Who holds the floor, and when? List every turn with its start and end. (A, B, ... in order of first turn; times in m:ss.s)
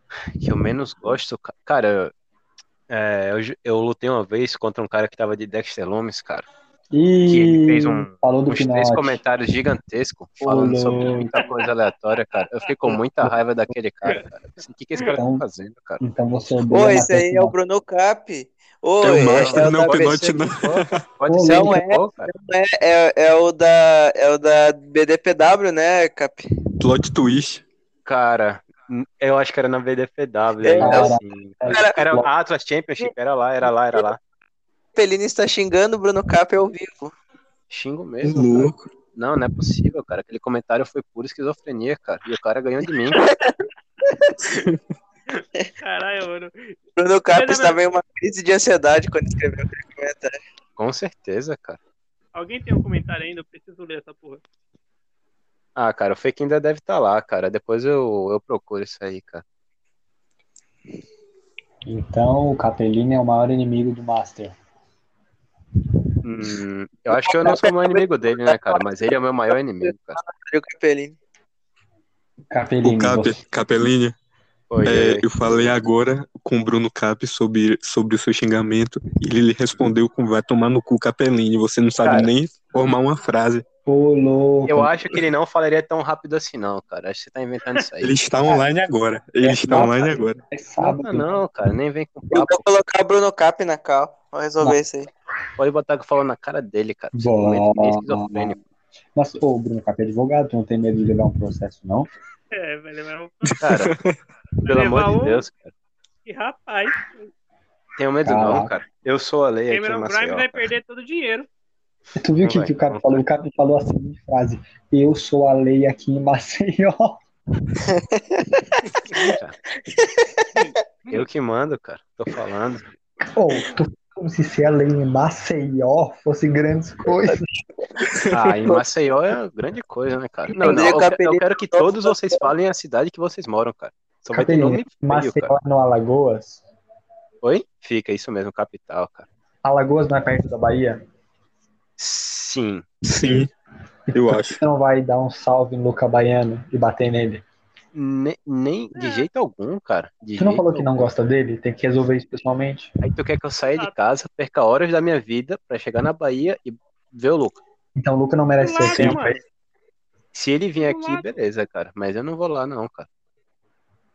0:00.4-0:02.1 A
0:02.9-0:06.5 A
0:06.9-0:09.2 B
0:07.3-0:16.0 A
0:10.4-0:11.4 B
0:15.1-0:15.4 B
0:16.0-0:17.5 B
0:16.7-0:20.3 C
0:19.0-0:21.0 D
0:19.3-0:22.3 A
0:21.3-0:21.8 B
0:21.4-0:26.4 C
0:26.8-0:27.6 D
0:28.0-0:34.2 A
0:30.6-0:31.1 C
0:30.8-0:32.3 B
0:31.7-0:32.0 C
0:35.0-0:37.1 C
0:37.7-0:43.2 A
0:38.2-0:38.9 D
0:43.2-0:44.3 C
0:44.4-0:44.8 D
0:45.8-0:46.8 E
0:47.0-0:50.4 C
0:47.3-0:47.8 E
0:50.8-0:51.8 A
0:52.3-0:54.4 E
0:55.8-0:59.4 A
1:01.8-1:04.6 B
1:06.2-1:10.2 A
1:07.2-1:08.8 C
1:09.8-1:11.2 C
1:12.5-1:13.4 B
1:12.8-1:14.2 D
1:14.7-1:15.3 A
1:14.8-1:23.6 D
1:22.0-1:22.3 A
1:23.8-1:24.9 B
1:24.7-1:28.2 A
1:28.0-1:30.4 D
1:29.4-1:31.3 B
1:30.8-1:32.6 A
1:32.3-1:35.1 C
1:35.6-1:38.6 A
1:37.1-1:38.5 B
1:39.1-1:42.1 B
1:42.5-1:43.7 E
1:43.5-1:44.2 D
1:43.6-1:43.9 A
1:44.6-1:45.4 E
1:44.6-1:45.7 A
1:46.2-1:47.3 E
1:48.0-1:50.7 A
1:48.2-1:48.7 B
1:49.7-1:51.5 E
1:52.2-1:57.2 B
1:52.4-1:53.2 A
1:57.9-1:59.3 C
1:59.2-1:59.6 A
1:59.9-2:00.2 C
2:00.6-2:01.2 E
2:01.1-2:02.8 A
2:03.3-2:07.5 B
2:08.3-2:15.5 A
2:10.6-2:12.4 C
2:14.3-2:16.6 B
2:17.4-2:19.3 A
2:19.6-2:21.0 B
2:22.0-2:23.0 A
2:23.0-2:23.5 D
2:24.1-2:27.4 B
2:24.1-2:24.6 D
2:27.9-2:31.1 A
2:28.9-2:29.3 E
2:30.4-2:32.9 B
2:33.0-2:37.6 A
2:38.0-2:39.4 B
2:38.6-2:39.4 E
2:38.9-2:39.2 A
2:40.3-2:43.1 A
2:40.8-2:41.3 E